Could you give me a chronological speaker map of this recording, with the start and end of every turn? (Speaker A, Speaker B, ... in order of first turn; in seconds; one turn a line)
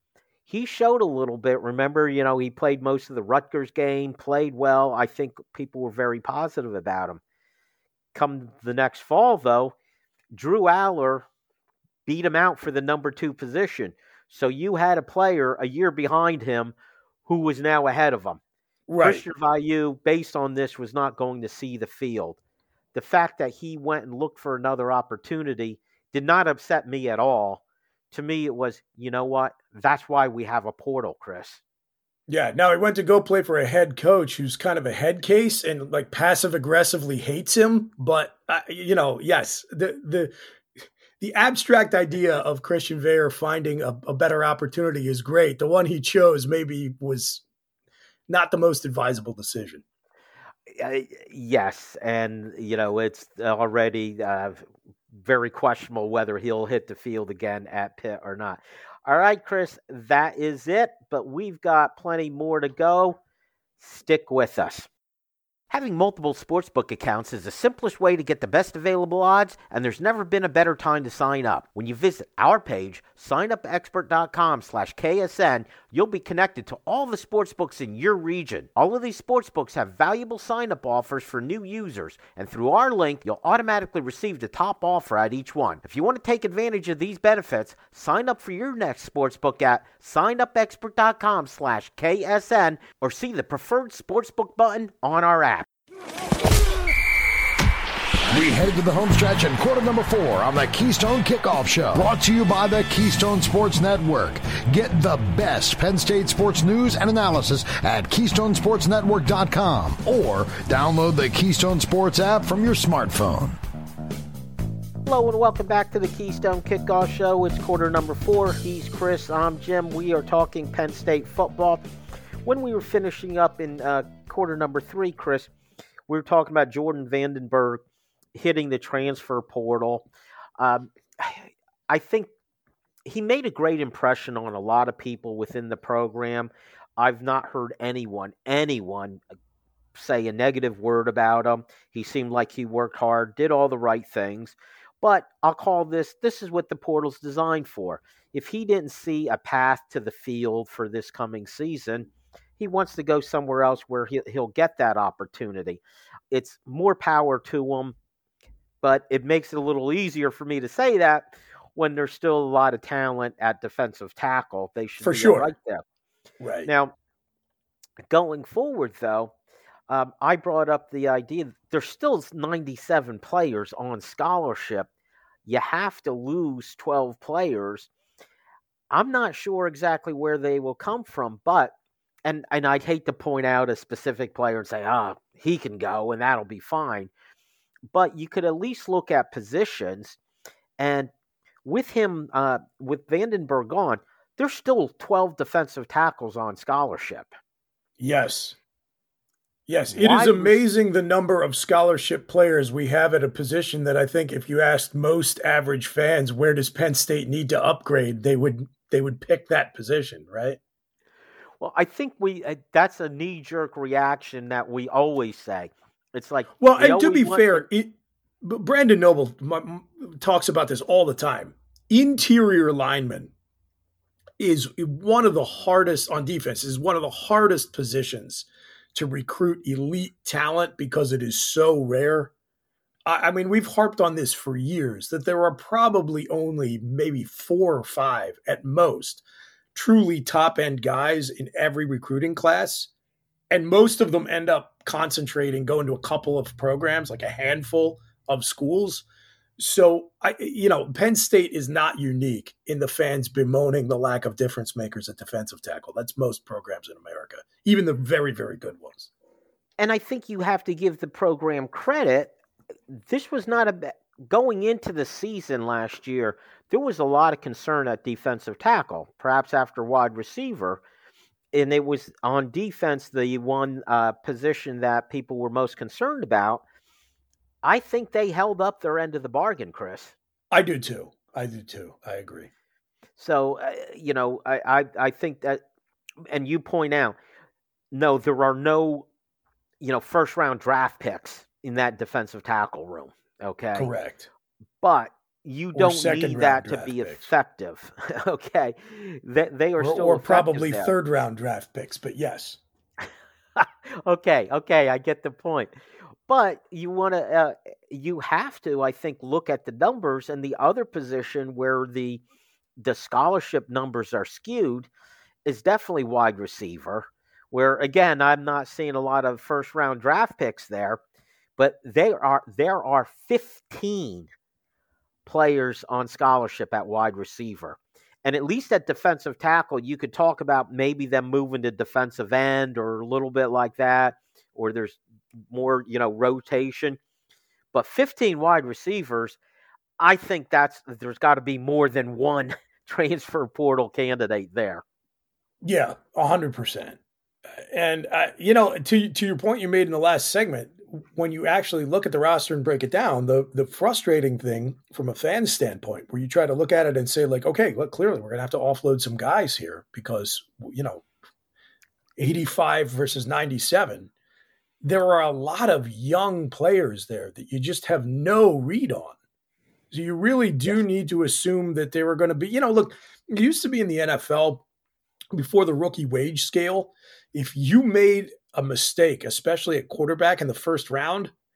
Speaker A: 0.5-7.2
Speaker A: 8.1-9.8
Speaker A: 10.3-11.3
Speaker A: 12.1-16.8
Speaker A: 17.3-18.4
Speaker B: 18.9-19.2
Speaker A: 19.0-22.4
Speaker A: 22.9-31.6
Speaker B: 32.3-40.3
Speaker B: 41.2-47.4
Speaker B: 48.3-49.8
Speaker A: 50.7-63.2
Speaker A: 63.8-64.9
Speaker A: 65.7-95.7
Speaker C: 98.3-113.6
Speaker A: 115.0-121.8
Speaker A: 122.5-125.5
Speaker A: 126.1-127.8
Speaker A: 128.3-130.1
Speaker A: 130.6-132.3
Speaker A: 133.1-139.2
Speaker A: 139.9-158.0
Speaker A: 158.8-165.8
Speaker B: 165.0-165.5
Speaker B: 166.4-166.7
Speaker A: 166.7-166.9
Speaker A: 168.1-169.3
Speaker A: 169.9-174.9
Speaker A: 175.5-177.9
Speaker A: 178.9-181.7
Speaker A: 182.2-187.1
Speaker A: 187.9-190.2
Speaker A: 190.8-191.1
Speaker A: 191.7-197.3
Speaker B: 198.0-198.6
Speaker B: 199.7-210.6
Speaker A: 199.9-200.6
Speaker A: 211.6-217.7
Speaker B: 216.6-223.3
Speaker B: 224.4-232.3
Speaker B: 233.1-242.9
Speaker B: 243.5-249.1
Speaker B: 249.6-259.1
Speaker A: 259.8-262.3
Speaker A: 262.9-270.8
Speaker A: 271.5-276.6
Speaker A: 277.6-280.1
Speaker B: 280.5-282.5
Speaker A: 283.2-285.6
Speaker A: 286.3-287.2
Speaker A: 287.9-289.1
Speaker A: 289.8-293.9
Speaker B: 293.8-294.3
Speaker A: 294.8-300.9
Speaker B: 295.8-297.2
Speaker B: 299.8-302.6
Speaker A: 303.6-305.7
Speaker A: 306.3-312.2
Speaker A: 312.8-314.9
Speaker A: 315.5-321.0
Speaker A: 321.6-324.3
Speaker A: 325.3-335.0
Speaker A: 335.5-337.0
Speaker A: 337.7-339.4
Speaker A: 340.0-344.8
Speaker B: 345.6-347.0
Speaker B: 347.7-361.1
Speaker B: 362.2-364.1
Speaker B: 364.8-369.2
Speaker B: 369.9-374.6
Speaker B: 375.3-381.3